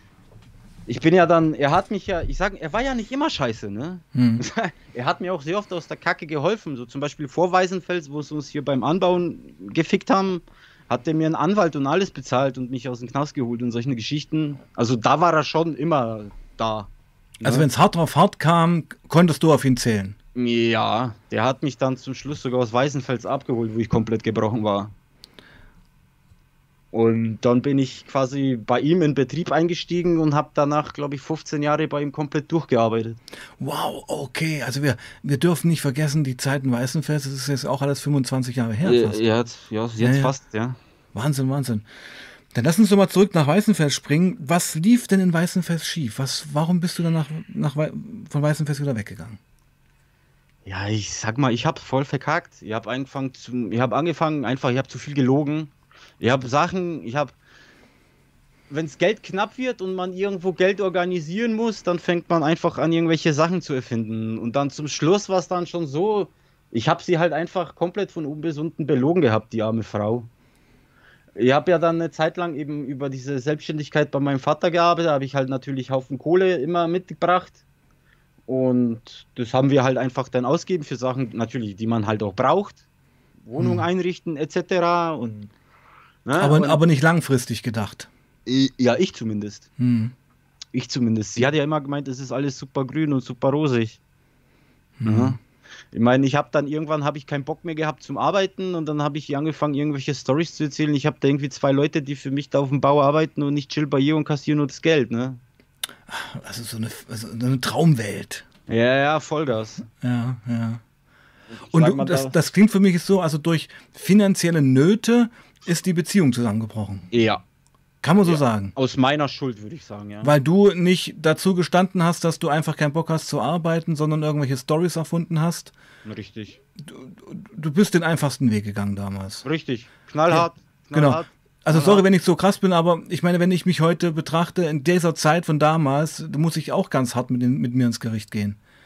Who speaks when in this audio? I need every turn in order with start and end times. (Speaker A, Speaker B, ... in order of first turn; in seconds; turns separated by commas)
Speaker A: 0.9-17.7, Speaker B: 4.1-4.4, Speaker B: 17.4-20.1, Speaker A: 20.3-24.9, Speaker A: 26.9-33.2, Speaker B: 33.6-39.2, Speaker A: 38.8-40.8, Speaker B: 40.0-40.3, Speaker B: 41.1-41.8, Speaker B: 42.5-49.4, Speaker A: 50.6-57.3, Speaker A: 58.7-70.3, Speaker A: 71.3-77.6, Speaker A: 78.5-82.8, Speaker A: 83.4-85.5, Speaker B: 83.6-83.8, Speaker A: 86.2-86.8, Speaker B: 86.3-88.1, Speaker A: 88.5-89.7, Speaker B: 89.8-90.1, Speaker A: 90.7-94.0, Speaker B: 95.0-95.4, Speaker A: 95.0-95.4, Speaker A: 95.9-105.4, Speaker B: 106.1-108.5, Speaker A: 108.7-109.8, Speaker B: 110.0-110.8, Speaker A: 111.5-112.3, Speaker B: 111.7-117.1, Speaker A: 117.1-117.4, Speaker B: 118.0-118.7, Speaker A: 118.2-120.3, Speaker B: 120.2-125.7, Speaker A: 126.0-126.6, Speaker B: 126.8-129.4, Speaker A: 129.4-132.0, Speaker B: 130.3-138.6